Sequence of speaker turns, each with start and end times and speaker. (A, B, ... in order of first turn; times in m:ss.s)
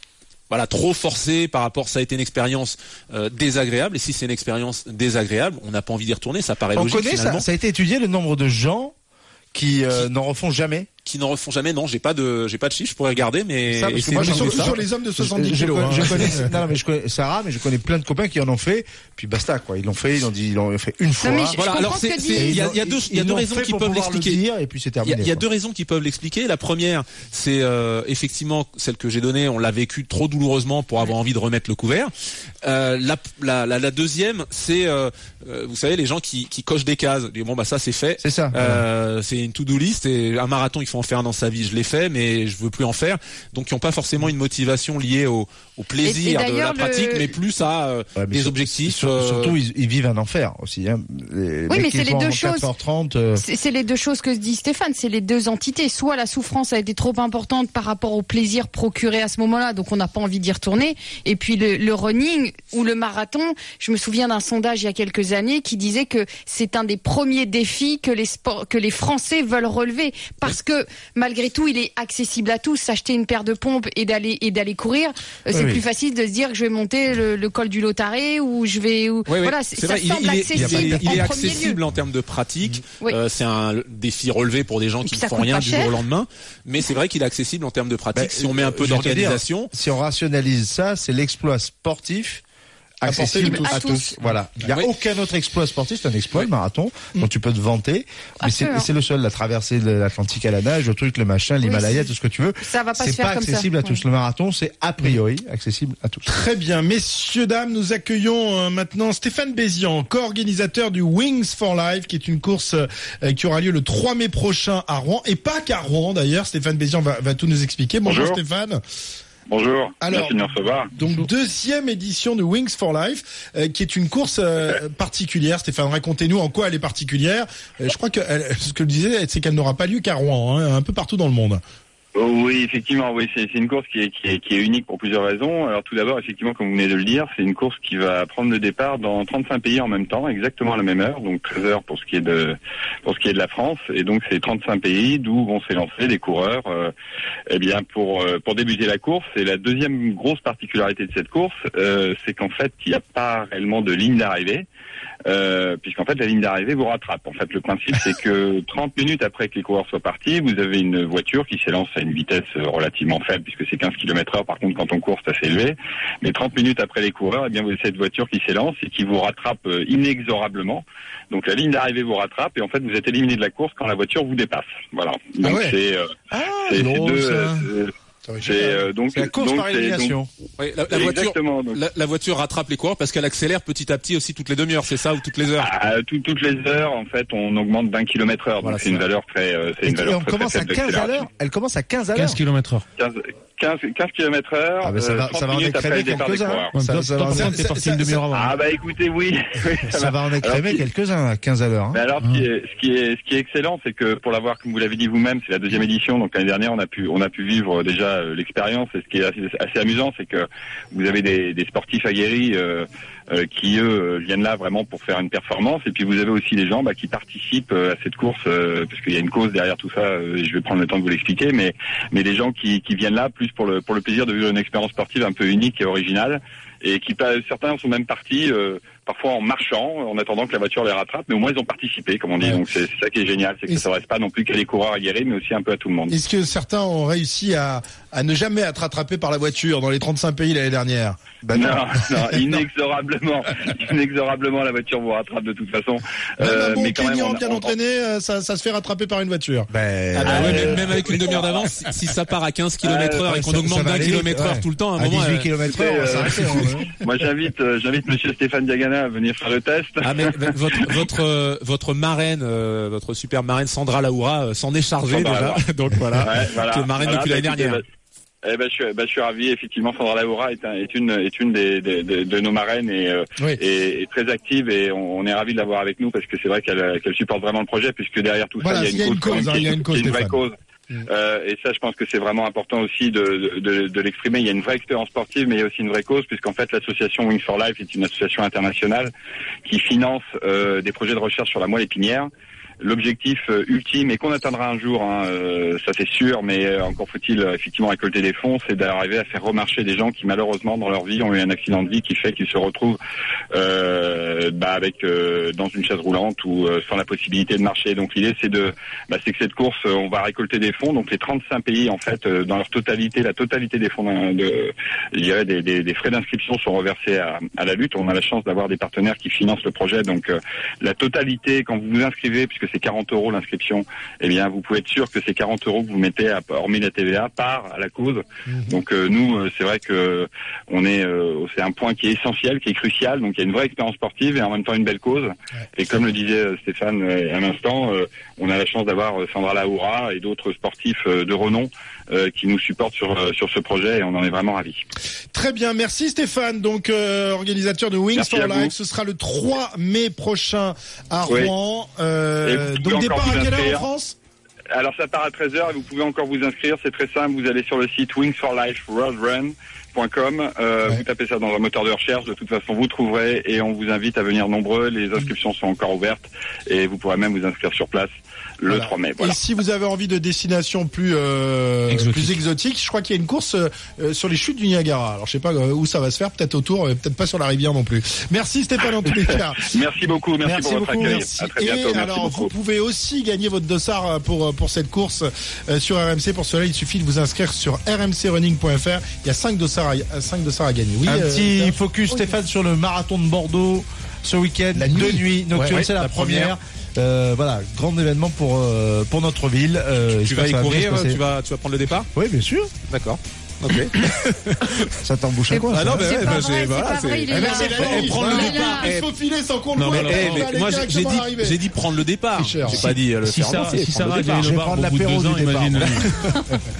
0:00.5-0:07.4 A
0:06.7-0:08.9 B
0:09.5-0:10.9 B
0:11.0-0:14.8 A
0:13.7-0:21.6 B
0:14.1-0:16.6 C
0:21.2-0:22.6 D
0:21.6-0:24.4 A
0:22.3-0:25.4 B
0:25.0-0:32.1 A
0:32.6-0:49.6 A
0:38.2-0:38.8 B
0:46.0-0:47.3 D
0:48.2-0:53.4 B
0:51.7-0:52.7 D
0:53.4-1:21.8 D
1:15.5-1:15.8 B
1:19.3-1:29.7 A
1:20.5-1:21.4 B
1:25.0-1:26.0 D
1:28.1-1:32.4 B
1:33.0-1:46.3 B
1:33.0-1:34.7 C
1:33.4-1:34.1 D
1:38.4-1:38.9 D
1:41.6-1:42.1 D
1:42.6-1:44.0 D
1:46.3-1:58.8 C
1:58.0-1:58.4 E
1:59.5-2:00.9 E
2:00.0-2:11.6 C
2:12.1-2:26.9 E
2:27.5-2:34.6 E
2:35.3-2:56.0 E
2:55.4-2:55.8 C
2:56.3-2:57.7 B
2:56.6-2:57.9 E
2:58.2-2:58.9 C
2:58.4-3:00.2 E
2:59.1-3:00.3 B
3:00.6-3:05.7 A
3:00.9-3:01.8 E
3:05.6-3:11.2 E
3:08.6-3:09.1 A
3:09.8-3:12.4 B
3:12.1-3:12.8 F
3:13.0-3:16.7 E
3:14.8-3:17.8 B
3:16.7-3:18.6 F
3:17.3-3:18.2 C
3:18.3-3:20.8 E
3:19.9-3:22.0 B
3:21.9-3:56.1 E
3:22.2-3:22.4 F
3:56.1-4:02.7 C
4:01.4-4:01.8 B
4:01.5-4:07.7 E
4:06.4-4:10.5 C
4:09.7-4:11.0 B
4:10.2-4:11.7 E
4:10.3-4:15.5 A
4:12.8-4:13.2 E
4:13.2-4:16.9 B
4:15.7-4:21.0 E
4:16.1-4:16.7 A
4:20.0-4:27.8 A
4:25.1-4:25.6 E
4:26.2-4:27.8 E
4:28.4-4:40.5 E
4:38.6-4:40.4 C
4:41.1-4:49.1 E
4:49.6-4:52.3 E
4:52.8-5:03.0 E
5:03.5-5:44.8 E
5:28.5-5:28.8 C
5:45.3-5:54.2 C
5:48.1-5:48.7 E
5:51.2-5:51.5 E
5:52.4-5:53.9 E
5:54.7-6:09.4 E
6:08.7-6:19.8 C
6:11.9-6:12.4 F
6:18.8-6:22.5 E
6:20.4-6:31.7 C
6:31.0-6:41.2 B
6:34.7-6:35.8 C
6:35.7-6:36.6 A
6:40.0-6:42.1 A
6:42.1-6:42.7 B
6:42.9-6:45.0 A
6:45.0-6:46.4 B
6:45.5-6:48.9 D
6:45.7-6:49.1 A
6:47.3-6:51.6 C
6:49.8-6:54.5 A
6:49.8-6:50.6 F
6:52.4-6:52.8 C
6:52.6-6:56.1 F
6:52.7-6:53.0 B
6:54.2-6:56.1 B
6:55.8-6:56.3 A